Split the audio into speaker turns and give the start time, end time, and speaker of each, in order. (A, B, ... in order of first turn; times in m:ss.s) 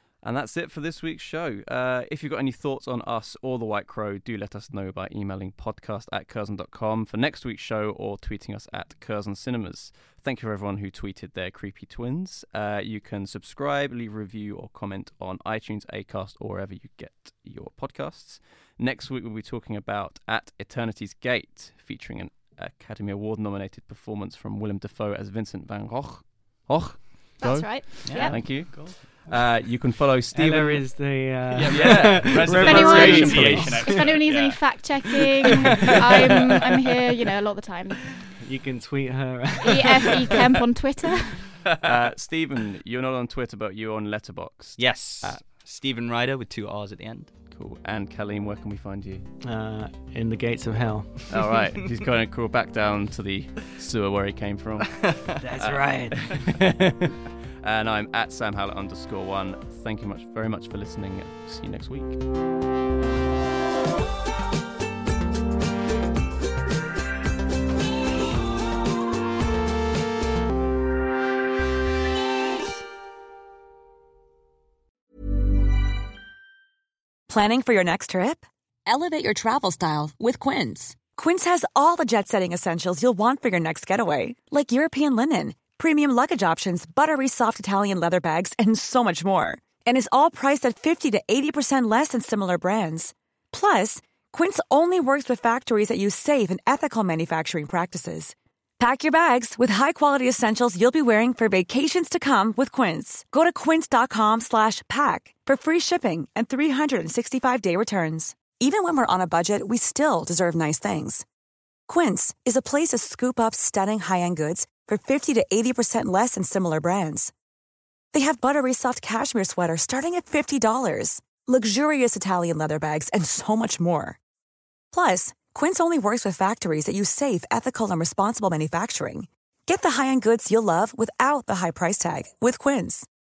0:00.2-0:30.9 A
0:27.4-0:28.6 B
0:28.0-0:29.0 C
0:28.2-0:29.3 D
0:30.3-0:34.0 D
0:31.6-0:36.3 C
0:31.6-0:33.8 A
0:32.6-0:38.0 B
0:38.2-0:40.3 D
0:39.6-0:41.4 B
0:41.8-0:45.4 A
0:44.8-0:47.3 C
0:47.5-0:49.3 A
0:49.4-0:51.3 D
0:51.3-0:57.0 A
0:55.4-0:56.5 D
0:57.6-1:02.2 A
1:17.3-1:51.2 E
1:51.9-1:57.3 E
1:58.1-2:04.2 E
2:04.9-2:13.1 E